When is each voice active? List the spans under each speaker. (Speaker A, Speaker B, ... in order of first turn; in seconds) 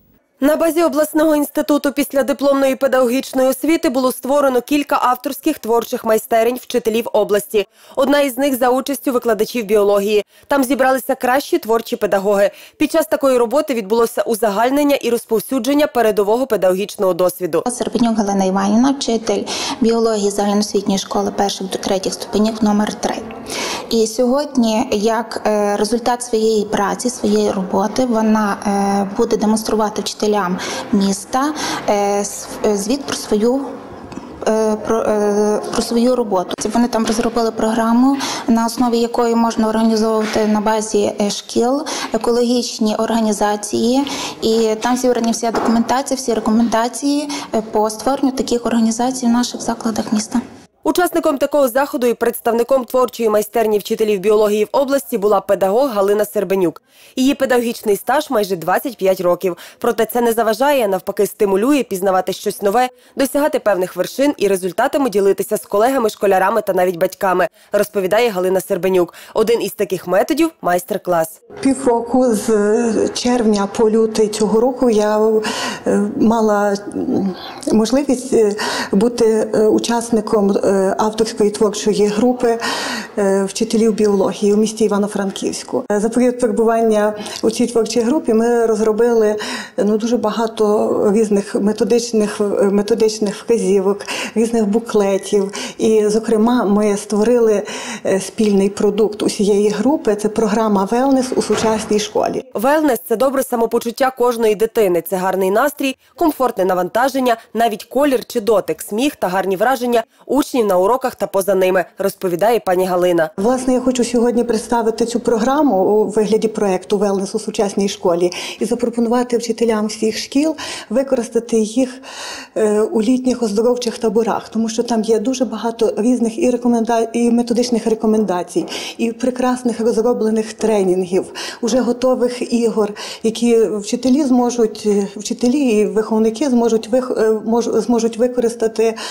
Speaker A: 0.4-17.6, 50.9-71.4, 102.5-113.3
Speaker B: 17.7-23.2, 23.9-33.6, 34.4-50.4
Speaker C: 71.6-82.6, 83.2-102.4, 113.4-122.0, 122.5-139.0